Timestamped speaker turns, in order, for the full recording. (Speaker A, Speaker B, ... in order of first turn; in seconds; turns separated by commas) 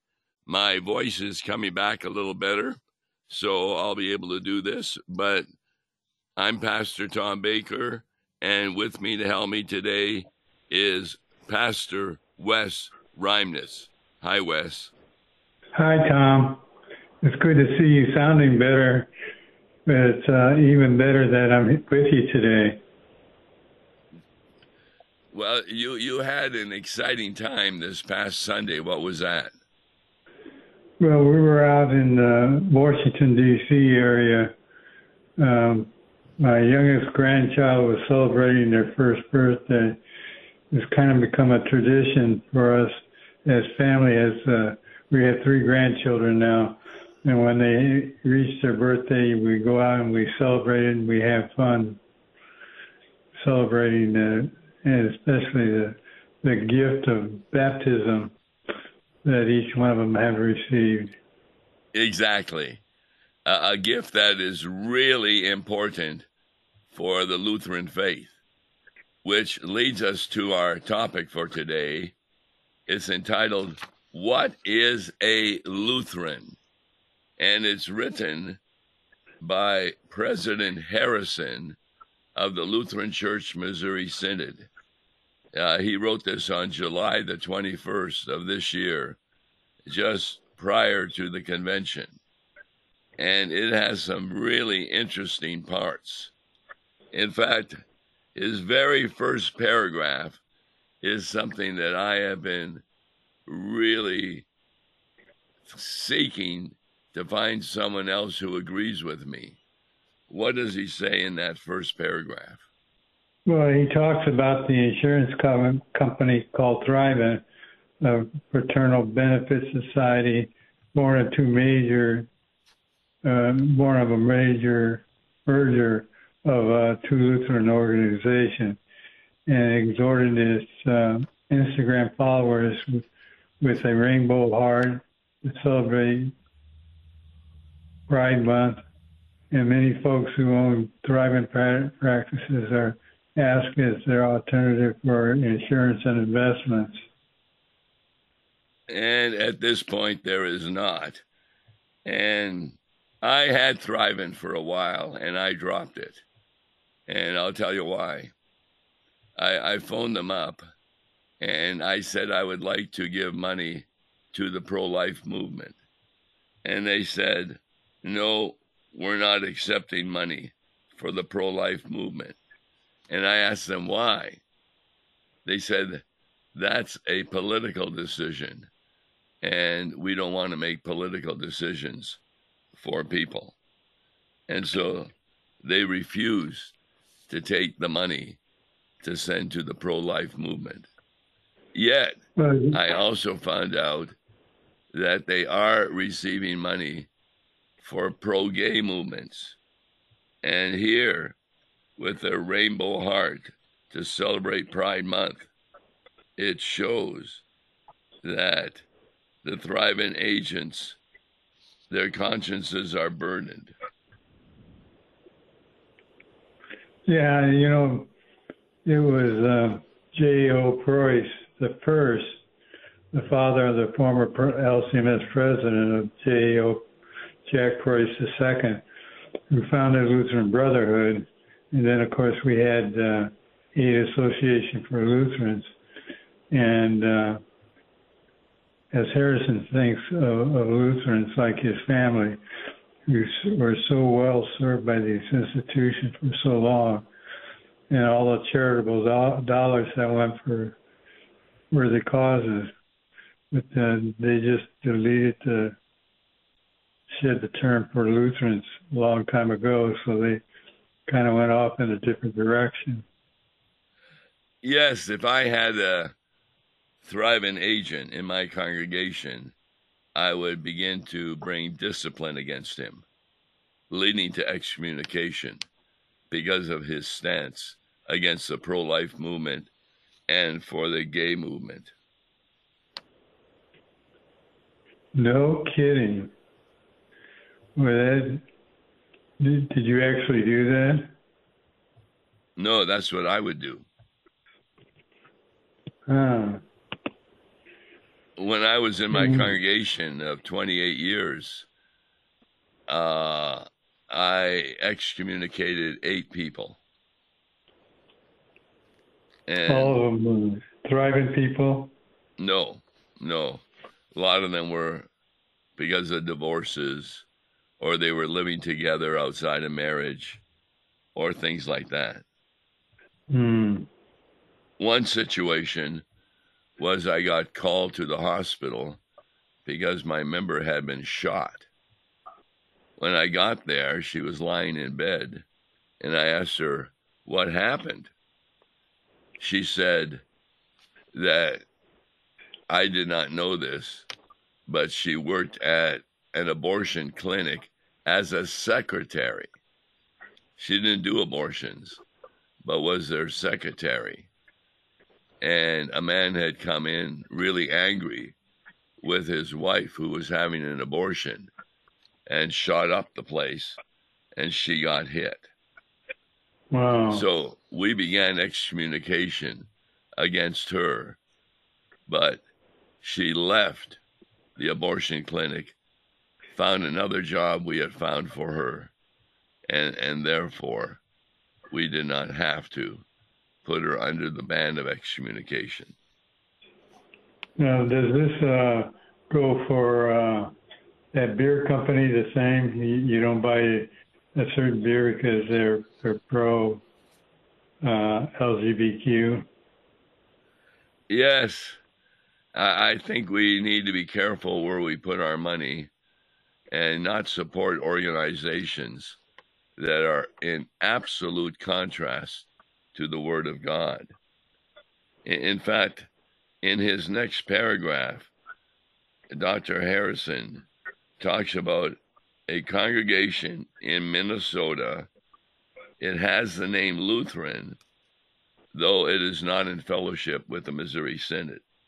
Speaker A: 0.5-5.5, Speaker A: 6.4-14.9, Speaker B: 15.8-16.6, Speaker B: 17.2-19.1, Speaker B: 19.9-22.8, Speaker A: 25.3-29.5, Speaker B: 31.0-34.5, Speaker B: 35.4-40.0, Speaker B: 40.7-52.0, Speaker B: 53.4-58.3, Speaker B: 59.2-61.1, Speaker A: 61.9-62.8, Speaker A: 63.4-66.3, Speaker A: 66.9-68.3, Speaker A: 69.2-72.1, Speaker A: 72.9-76.6, Speaker A: 77.4-78.6, Speaker A: 79.4-81.8, Speaker A: 82.3-84.7, Speaker A: 85.5-89.2, Speaker A: 89.8-92.2, Speaker A: 93.2-96.3, Speaker A: 97.1-97.8, Speaker A: 98.3-100.4, Speaker A: 101.0-102.8, Speaker A: 103.5-104.5, Speaker A: 105.7-109.6, Speaker A: 110.3-112.6, Speaker B: 113.5-117.4, Speaker B: 118.0-122.3, Speaker B: 123.2-128.8, Speaker B: 129.5-133.1, Speaker B: 133.6-136.3, Speaker B: 138.1-138.8, Speaker B: 139.5-147.0, Speaker A: 148.9-151.2, Speaker A: 152.0-156.2, Speaker A: 157.1-158.3, Speaker A: 159.4-160.7, Speaker A: 161.4-165.8, Speaker A: 166.6-172.4, Speaker A: 173.1-174.4, Speaker A: 175.4-176.0, Speaker A: 176.5-178.7, Speaker A: 179.4-182.2, Speaker A: 182.7-183.6, Speaker A: 184.5-185.1, Speaker A: 185.6-186.7, Speaker A: 187.3-188.4, Speaker A: 189.0-190.9, Speaker A: 191.7-192.2, Speaker B: 192.3-192.8, Speaker A: 192.7-194.2, Speaker A: 194.9-197.1, Speaker A: 197.8-199.6, Speaker A: 200.4-201.3, Speaker A: 202.0-205.5, Speaker A: 206.4-207.4, Speaker A: 208.2-208.8, Speaker A: 209.4-211.0, Speaker A: 211.9-213.7, Speaker B: 217.1-218.1, Speaker B: 218.8-222.4, Speaker B: 223.1-226.9, Speaker B: 227.4-228.8, Speaker B: 229.5-235.7, Speaker B: 236.5-237.4, Speaker B: 238.9-242.4, Speaker B: 243.1-247.0, Speaker B: 247.9-250.8, Speaker B: 251.7-252.7, Speaker B: 253.5-255.8, Speaker B: 257.1-260.4, Speaker B: 261.1-263.0, Speaker A: 264.6-266.1, Speaker A: 267.0-269.5, Speaker A: 270.1-273.0, Speaker A: 273.9-275.6, Speaker A: 276.3-279.7, Speaker A: 280.3-281.9, Speaker B: 285.1-286.3, Speaker B: 287.8-288.4, Speaker B: 289.4-291.1, Speaker A: 292.6-293.9, Speaker B: 296.1-296.6, Speaker A: 298.4-301.7, Speaker B: 299.1-299.5, Speaker A: 302.9-306.8, Speaker A: 309.5-310.0, Speaker B: 309.7-311.9, Speaker A: 312.4-315.1, Speaker A: 315.8-317.2, Speaker A: 317.8-320.4, Speaker A: 321.1-322.2, Speaker B: 323.3-323.9, Speaker A: 324.8-326.0, Speaker A: 326.8-329.0, Speaker A: 329.6-331.7, Speaker A: 333.0-335.4, Speaker A: 336.0-338.1, Speaker A: 339.4-340.2, Speaker A: 341.1-341.6, Speaker A: 342.7-344.1, Speaker A: 344.7-349.5, Speaker A: 350.6-352.0, Speaker A: 352.6-354.3, Speaker A: 355.4-358.3, Speaker A: 359.0-361.5, Speaker A: 362.3-363.8, Speaker A: 364.3-365.5, Speaker B: 366.7-367.2, Speaker A: 367.1-371.2, Speaker A: 372.1-372.4, Speaker A: 373.0-374.0, Speaker A: 374.6-375.8, Speaker A: 376.5-378.9, Speaker A: 379.7-381.0, Speaker A: 381.7-383.0, Speaker A: 383.6-385.9, Speaker B: 387.6-390.5, Speaker B: 391.1-396.8, Speaker B: 397.8-399.4, Speaker A: 401.1-401.8, Speaker A: 402.5-405.9, Speaker A: 406.7-409.2, Speaker A: 409.8-414.1, Speaker A: 415.2-416.1, Speaker A: 416.6-418.3, Speaker A: 419.3-420.6, Speaker A: 421.2-425.1, Speaker A: 426.0-427.8, Speaker A: 428.7-431.6